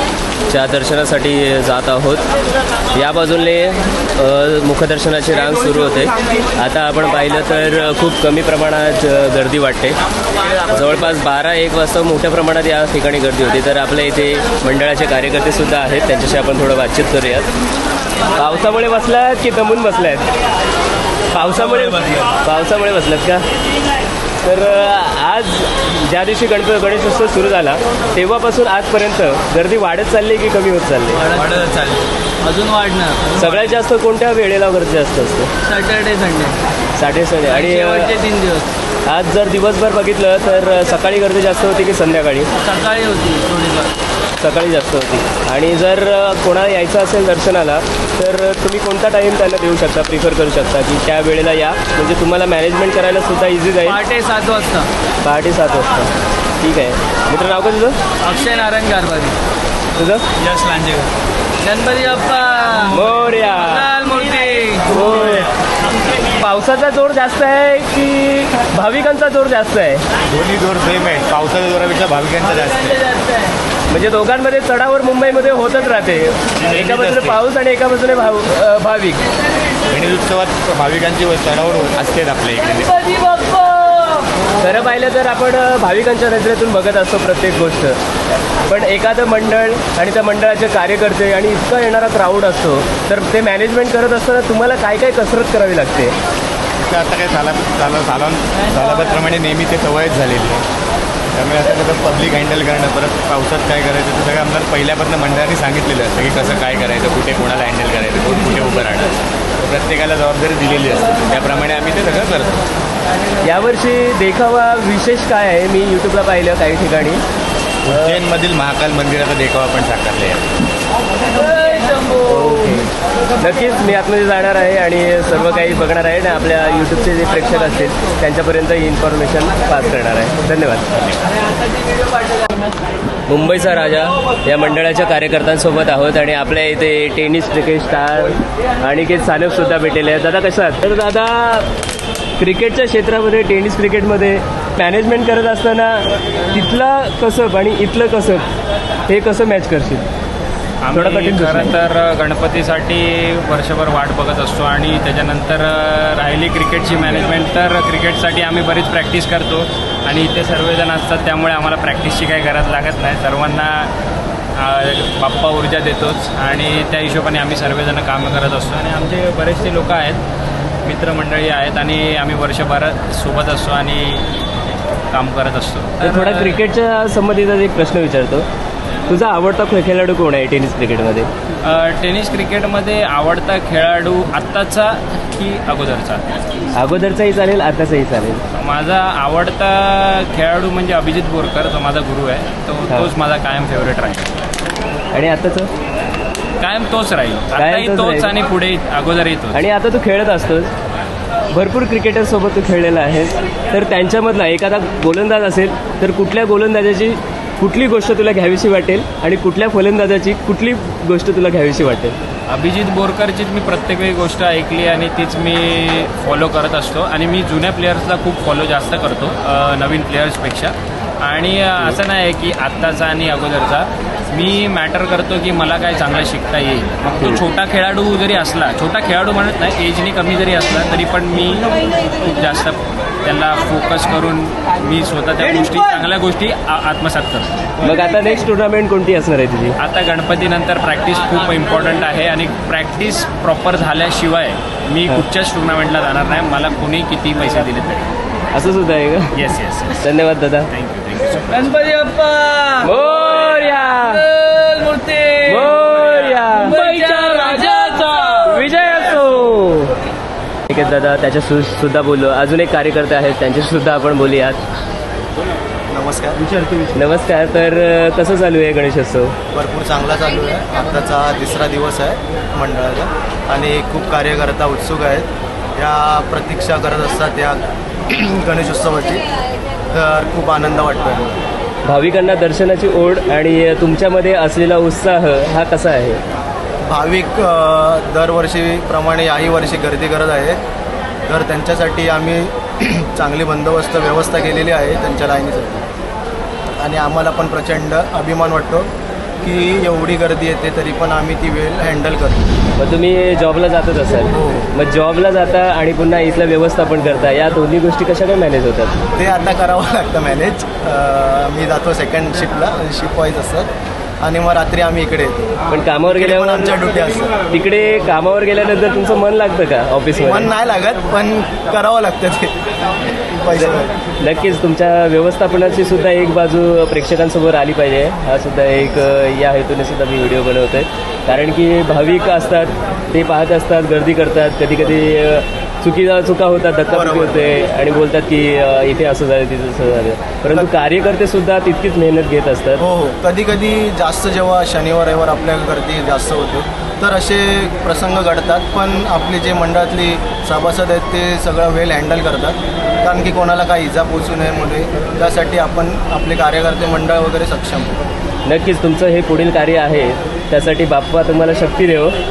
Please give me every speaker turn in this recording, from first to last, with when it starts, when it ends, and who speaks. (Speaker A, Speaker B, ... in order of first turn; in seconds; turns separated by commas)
Speaker A: 0.5-2.2, Speaker A: 2.9-10.0, Speaker A: 10.7-17.5, Speaker A: 18.3-20.3, Speaker A: 21.3-23.4, Speaker A: 24.4-31.3, Speaker B: 31.2-33.5, Speaker A: 33.4-35.5, Speaker B: 35.6-36.6, Speaker A: 37.0-38.1, Speaker B: 37.5-38.7, Speaker A: 39.1-42.5, Speaker B: 42.6-44.0, Speaker A: 44.4-54.0, Speaker B: 53.9-54.9, Speaker A: 55.2-58.0, Speaker B: 58.2-59.4, Speaker A: 60.0-60.3, Speaker B: 60.4-63.0, Speaker A: 62.9-63.9, Speaker B: 63.6-64.9, Speaker A: 64.9-65.5, Speaker A: 66.3-70.0, Speaker C: 70.3-73.1, Speaker A: 73.9-79.2, Speaker C: 76.6-77.4, Speaker C: 79.9-83.1, Speaker B: 83.1-84.3, Speaker A: 84.5-88.0, Speaker A: 88.6-96.2, Speaker C: 96.8-100.7, Speaker C: 101.3-112.6, Speaker A: 113.4-117.2, Speaker C: 117.9-120.5, Speaker B: 121.4-122.2, Speaker A: 122.2-131.2, Speaker A: 133.3-141.7, Speaker A: 142.4-148.4, Speaker A: 149.1-150.1, Speaker D: 150.8-163.9, Speaker A: 150.9-151.8, Speaker D: 164.6-170.2, Speaker D: 170.8-174.3, Speaker D: 175.1-176.6, Speaker A: 176.0-178.5, Speaker A: 179.1-181.3, Speaker D: 181.6-186.2, Speaker A: 186.8-188.4, Speaker D: 188.6-194.3, Speaker A: 195.1-195.7, Speaker D: 196.6-199.6, Speaker A: 197.6-198.3, Speaker A: 199.5-200.7, Speaker A: 201.5-212.2, Speaker D: 212.5-237.6, Speaker A: 237.8-239.8, Speaker D: 239.8-248.1, Speaker A: 248.5-249.3, Speaker D: 249.3-250.0, Speaker A: 250.0-250.7, Speaker D: 250.7-251.6, Speaker B: 251.5-258.6, Speaker A: 252.8-254.3, Speaker A: 255.4-260.0, Speaker A: 260.7-264.6, Speaker E: 265.9-266.5, Speaker A: 266.9-269.3, Speaker E: 269.5-279.3, Speaker E: 279.9-281.4, Speaker A: 281.9-286.2, Speaker E: 286.9-290.6, Speaker E: 291.3-295.9, Speaker E: 296.7-298.9, Speaker E: 299.4-302.5, Speaker A: 302.8-308.9, Speaker E: 304.3-304.7, Speaker E: 309.2-313.7, Speaker E: 314.2-315.5, Speaker A: 315.7-316.8, Speaker E: 316.1-317.4, Speaker A: 317.5-320.5, Speaker E: 320.2-322.6, Speaker E: 323.2-323.9, Speaker A: 323.6-342.8, Speaker E: 336.9-337.5, Speaker E: 342.8-357.9, Speaker A: 358.5-362.2